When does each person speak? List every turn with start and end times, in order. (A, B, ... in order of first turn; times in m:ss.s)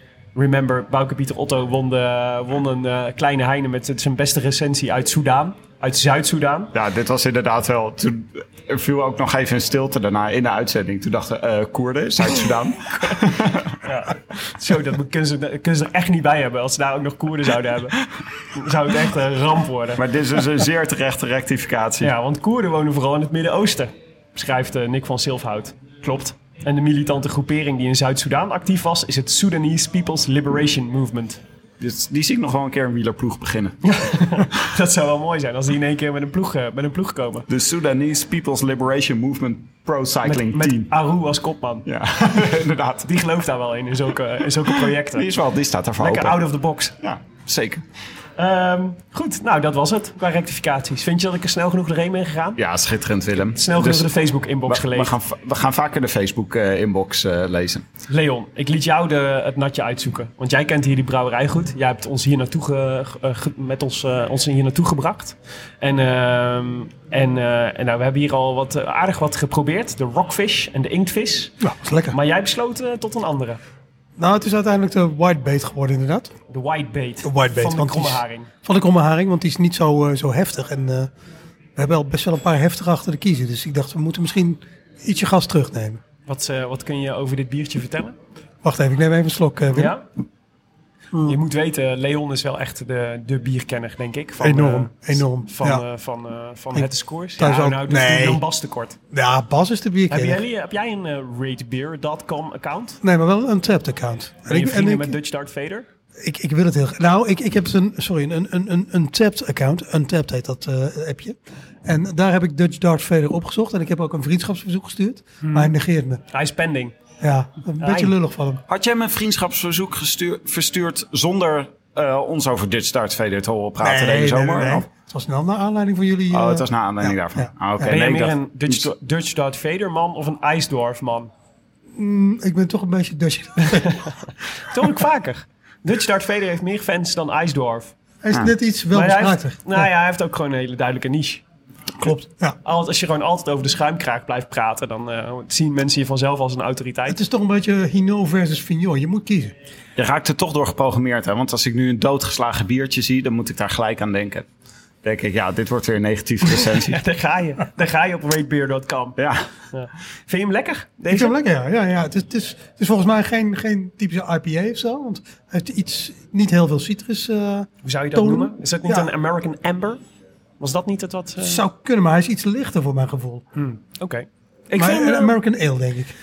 0:00.3-0:06.7 A
0:06.7-0:13.8 B
0:13.8-0:20.0 A
0:20.0-0:22.1 B
0:22.0-0:31.4 A
0:31.8-0:33.8 B
0:33.8-0:37.4 A
0:37.5-0:40.9 B
0:40.2-0:41.9 A
0:41.8-0:43.1 B
0:43.0-0:45.3 A
0:45.1-0:46.4 B
0:46.0-0:46.9 A
0:47.0-0:47.8 B
0:48.4-0:52.6 A
0:52.6-0:54.1 B
0:53.3-0:55.1 A
0:54.6-0:57.8 B
0:58.1-1:11.5 A
1:11.6-1:12.2 C
1:12.1-1:13.6 A
1:14.2-1:16.3 C
1:16.5-1:18.5 A
1:17.2-1:21.1 C
1:21.8-1:26.0 C
1:26.2-1:28.2 A
1:28.6-1:29.9 C
1:29.7-1:30.1 A
1:31.1-1:31.4 C
1:31.2-1:39.0 A
1:34.4-1:35.8 C
1:36.7-1:38.4 C
1:39.1-1:40.4 C
1:40.1-1:43.0 A
1:43.0-1:45.1 C
1:44.5-1:45.8 A
1:46.2-1:56.2 C
1:55.4-1:55.7 A
1:56.3-1:56.9 A
1:57.2-1:58.6 C
1:57.8-1:58.1 A
1:58.7-2:04.8 B
2:03.8-2:07.5 C
2:06.3-2:08.9 B
2:07.8-2:11.3 A
2:11.9-2:14.2 C
2:13.7-2:14.0 A
2:14.6-2:17.9 A
2:18.2-2:19.9 C
2:18.9-2:21.4 A
2:22.0-2:22.6 C
2:22.6-2:27.2 A
2:27.1-2:29.5 C
2:30.0-2:34.5 B
2:35.0-2:37.0 B
2:36.5-2:39.2 A
2:39.2-2:39.5 B
2:39.7-2:41.3 A
2:41.1-2:49.1 C
2:47.8-2:50.0 A
2:50.6-2:51.6 A
2:51.4-2:53.4 C
2:53.6-2:55.4 A
2:54.8-2:56.1 C